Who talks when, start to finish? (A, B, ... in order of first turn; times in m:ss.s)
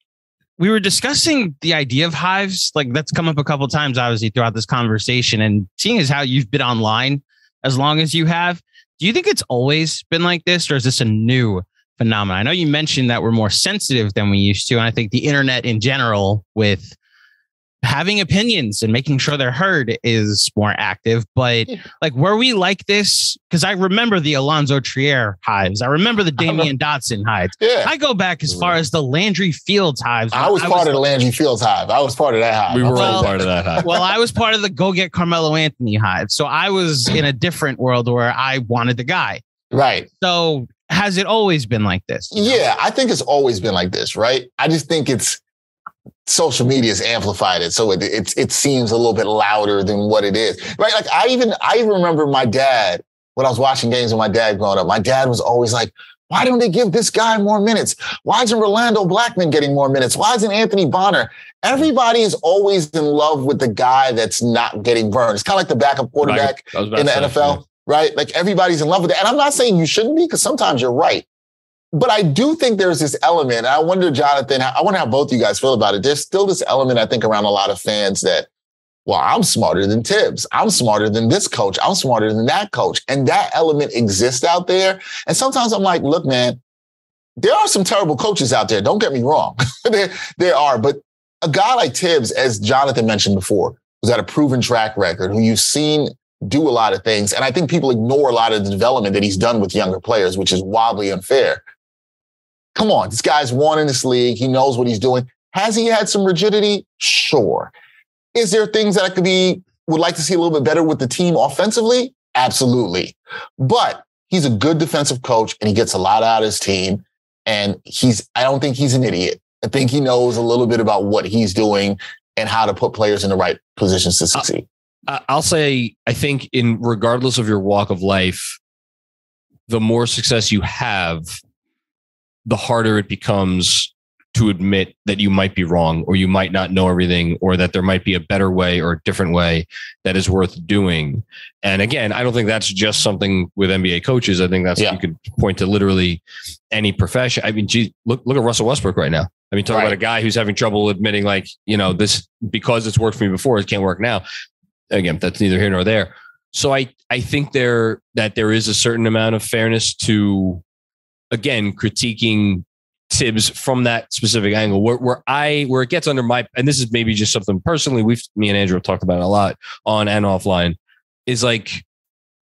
0:00.6-0:17.0 A
0:17.8-0:31.1 A
0:26.4-0:26.7 B
0:27.6-0:27.9 B
0:30.3-0:34.1 B
0:32.7-0:33.9 C
0:32.9-0:39.4 A
0:39.7-0:40.1 B
0:40.2-0:42.6 A
0:42.3-0:45.4 B
0:46.3-1:11.3 B
1:06.2-1:07.6 C
1:11.9-1:18.5 B
1:19.1-1:26.6 B
1:27.4-1:41.6 B
1:42.8-1:47.7 B
1:48.4-2:04.7 B
2:05.1-2:08.6 C
2:09.7-2:11.4 C
2:12.5-2:34.2 C
2:29.7-2:30.0 B
2:34.9-2:40.6 C
2:41.3-2:50.8 C
2:51.3-2:51.8 C